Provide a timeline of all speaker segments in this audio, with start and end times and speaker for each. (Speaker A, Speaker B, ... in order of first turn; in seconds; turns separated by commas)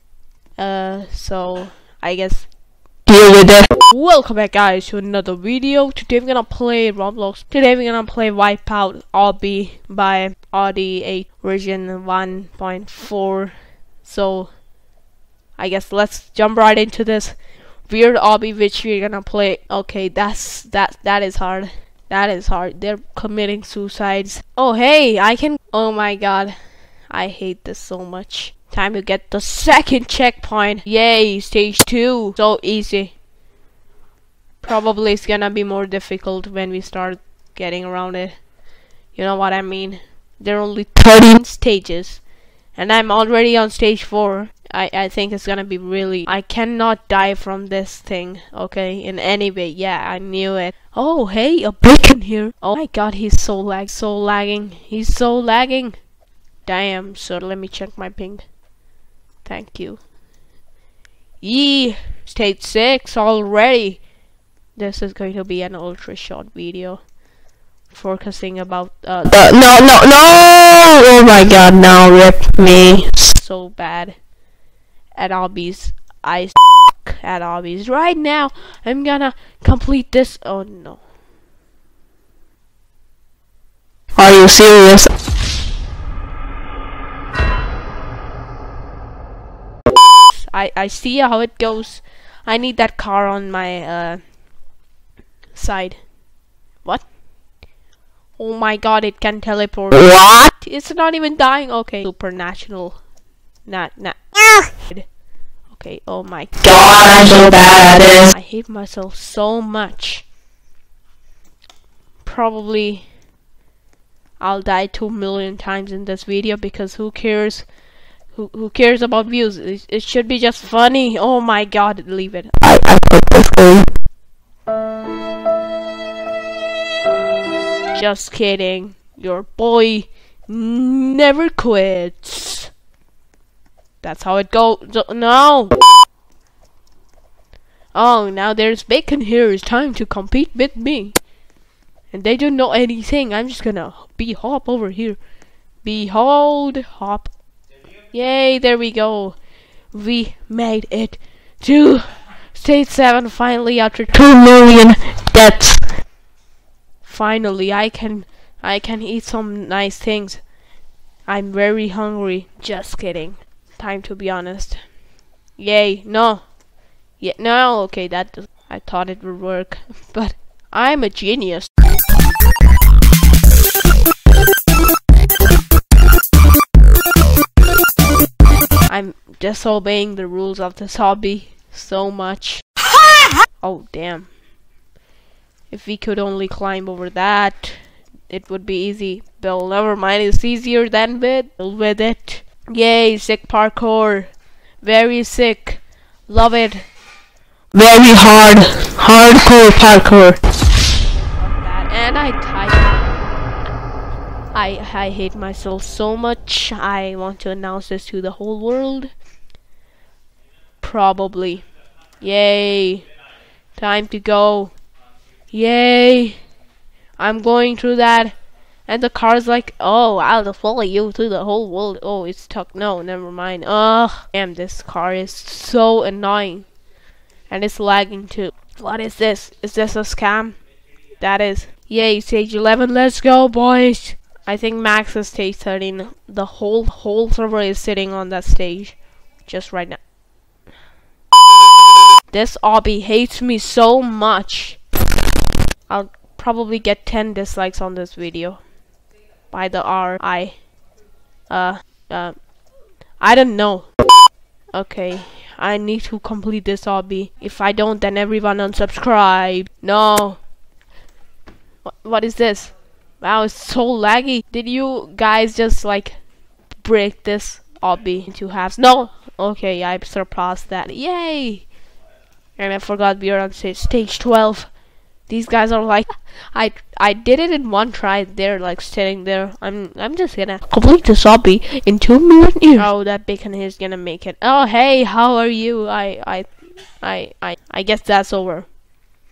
Speaker A: 0.6-2.5, Speaker B: 3.1-3.7, Speaker A: 3.9-14.5, Speaker A: 15.6-26.5, Speaker A: 27.1-33.1, Speaker A: 34.6-38.4, Speaker A: 39.1-42.2, Speaker A: 42.7-56.0, Speaker A: 56.6-58.4, Speaker A: 59.4-60.0, Speaker A: 61.4-64.0, Speaker A: 64.8-67.0, Speaker A: 67.9-70.0, Speaker B: 69.3-73.1, Speaker A: 71.6-74.1, Speaker A: 75.2-81.0, Speaker B: 84.2-85.1, Speaker A: 90.3-94.2, Speaker A: 95.5-96.0, Speaker A: 98.4-103.0, Speaker A: 103.7-105.1, Speaker A: 105.7-106.9, Speaker B: 106.6-108.3, Speaker A: 108.1-110.2, Speaker A: 112.2-113.0, Speaker A: 114.4-117.7, Speaker A: 118.3-122.5, Speaker B: 122.6-123.9, Speaker A: 127.9-132.7, Speaker A: 134.0-135.7, Speaker A: 137.9-141.2, Speaker A: 142.1-145.2, Speaker A: 145.8-147.3, Speaker A: 148.1-149.3, Speaker A: 149.9-154.9, Speaker B: 155.3-155.8, Speaker A: 157.0-160.4, Speaker A: 161.3-164.8, Speaker A: 165.6-166.4, Speaker A: 167.2-171.7, Speaker A: 178.9-182.6, Speaker A: 183.6-184.3, Speaker A: 185.7-196.8, Speaker B: 197.7-200.3, Speaker A: 198.3-200.3, Speaker A: 200.9-203.1, Speaker A: 204.5-209.1, Speaker A: 210.8-211.6, Speaker A: 212.2-213.1, Speaker A: 213.8-214.7, Speaker A: 215.5-216.4, Speaker A: 217.2-218.3, Speaker A: 218.9-226.7, Speaker A: 227.5-230.6, Speaker A: 231.2-240.0, Speaker A: 242.3-244.8, Speaker A: 245.9-248.6, Speaker A: 249.5-250.5, Speaker A: 251.5-252.4, Speaker A: 253.2-253.9, Speaker A: 254.7-260.4, Speaker A: 261.9-266.2, Speaker A: 266.8-271.6, Speaker A: 272.6-274.7, Speaker A: 275.3-286.5, Speaker A: 287.0-288.7